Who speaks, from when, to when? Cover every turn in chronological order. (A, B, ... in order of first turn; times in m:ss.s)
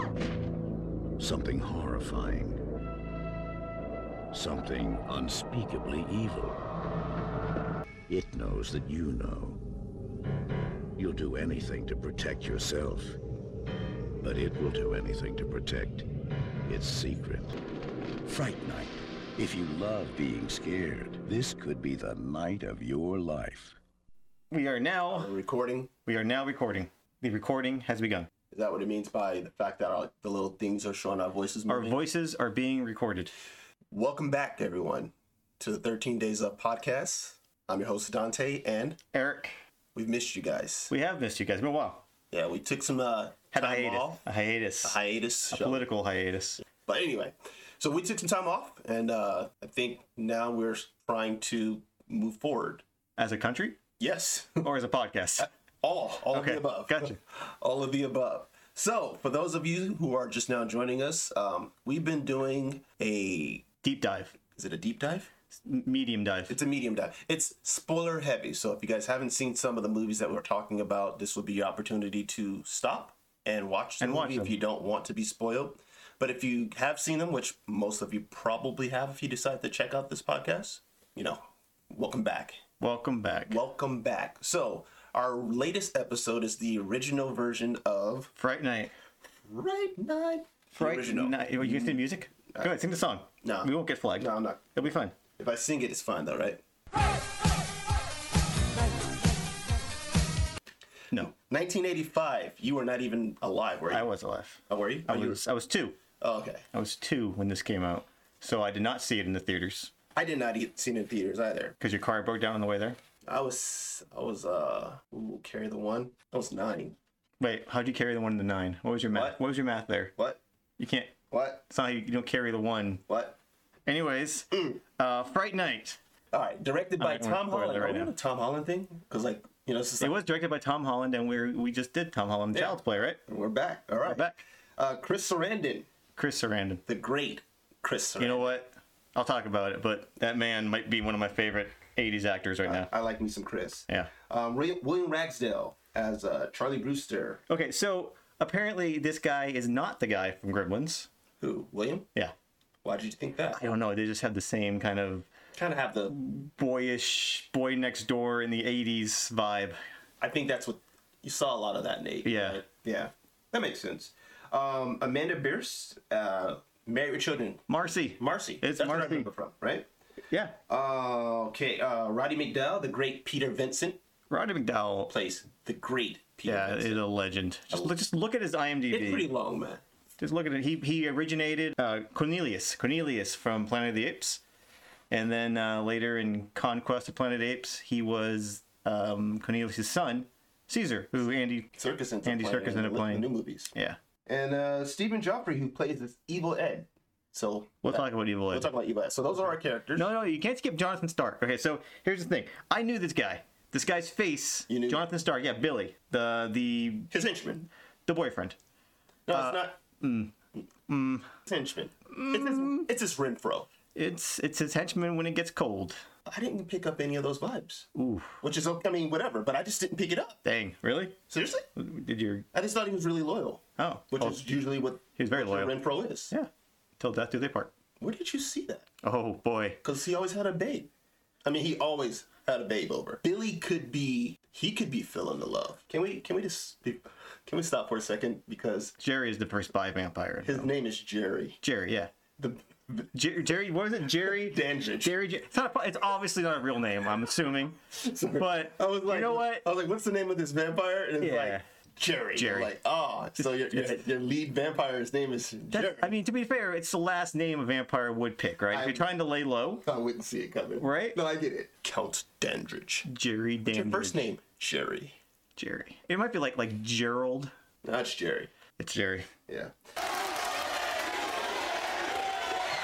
0:01.2-0:02.6 A
0:04.3-0:06.6 A
0:08.1-0:09.6 A
0:11.0-0:13.2 A
0:14.2-0:16.1 A
0:16.7-0:17.6 A
0:18.2-0:23.8 A
0:24.5-0:25.3 B
0:25.1-0:25.9 C
0:26.0-0:28.3 B
0:28.5-0:32.0 C
0:31.7-0:33.3 B
0:33.9-0:39.0 C
0:39.1-0:39.6 B
0:39.9-0:40.9 C
0:40.9-0:42.0 B
0:42.3-0:44.2 C
0:43.5-0:45.0 B
0:44.8-0:45.8 C
0:45.5-0:46.6 B
0:46.8-0:52.8 C
0:53.2-0:53.8 B
0:54.0-0:54.7 C
0:54.6-0:55.5 B
0:55.4-1:03.6 C
0:56.3-0:57.2 B
1:03.8-1:04.4 B
1:04.5-1:05.3 C
1:05.6-1:06.6 B
1:06.5-1:22.6 C
1:14.0-1:14.5 B
1:22.8-1:23.6 B
1:23.5-1:28.3 C
1:28.4-1:28.9 B
1:29.4-1:32.0 C
1:30.8-1:35.1 B
1:33.4-1:34.8 C
1:35.4-1:36.6 C
1:41.2-1:44.1 C
1:43.9-1:46.0 B
1:44.7-1:45.4 C
1:46.2-1:46.6 C
1:46.7-1:49.9 B
1:50.1-1:51.7 C
1:51.8-1:53.0 B
1:53.2-1:57.0 C
1:57.4-2:00.1 B
1:59.1-1:59.4 C
2:00.8-2:01.1 B
2:01.3-2:01.6 C
2:01.7-2:03.0 B
2:03.1-2:03.4 C
2:03.9-2:06.0 B
2:04.5-2:04.8 C
2:06.3-2:10.2 C
2:07.0-2:08.1 B
2:10.0-2:13.2 B
2:12.5-2:15.9 C
2:14.0-2:14.4 B
2:16.2-2:16.8 B
2:16.9-2:18.6 C
2:18.2-2:22.9 B
2:22.6-2:27.4 C
2:27.5-2:31.1 B
2:31.4-2:32.1 C
2:32.8-2:33.7 C
2:33.5-2:35.3 B
2:35.5-2:36.2 C
2:36.1-2:39.8 B
2:40.2-2:49.9 C
2:42.2-2:42.6 B
2:47.7-2:49.3 B
2:50.7-2:54.0 C
2:54.3-2:55.1 B
2:55.1-2:57.0 C
2:56.4-2:59.3 B
2:57.7-2:58.0 C
2:58.9-2:59.8 C
3:00.2-3:04.4 B
3:05.1-3:11.7 B
3:11.8-3:13.7 C
3:12.2-3:14.0 B
3:14.2-3:20.1 C
3:17.8-3:18.7 B
3:20.0-3:27.1 B
3:24.7-3:25.0 C
3:27.1-3:27.7 C
3:28.0-3:28.6 B
3:29.3-3:29.7 C
3:29.3-3:30.3 B
3:30.9-3:31.3 B
3:31.4-3:33.7 C
3:32.1-3:32.9 B
3:33.9-3:36.0 B
3:36.2-3:37.9 C
3:37.9-3:38.4 B
3:38.4-3:40.4 C
3:40.4-3:41.2 B
3:41.3-3:41.6 C
3:41.8-3:42.4 B
3:42.5-3:46.3 C
3:43.8-3:44.4 B
3:45.2-3:45.7 B
3:46.3-3:47.7 B
3:48.0-3:48.9 C
3:49.0-3:49.8 B
3:49.8-3:50.9 C
3:51.4-3:58.9 C
3:59.0-4:00.7 B
4:00.4-4:01.6 C
4:01.6-4:02.1 B
4:02.4-4:03.1 C
4:03.1-4:09.6 B
4:04.2-4:05.1 C
4:07.9-4:16.1 C
4:11.2-4:11.6 B
4:12.4-4:12.7 B
4:15.7-4:19.8 B
4:18.7-4:19.0 C
4:19.8-4:23.0 C
4:20.8-4:21.2 B
4:23.0-4:24.2 B
4:23.7-4:25.1 C
4:25.6-4:27.5 B
4:27.8-4:28.5 C
4:28.8-4:29.3 B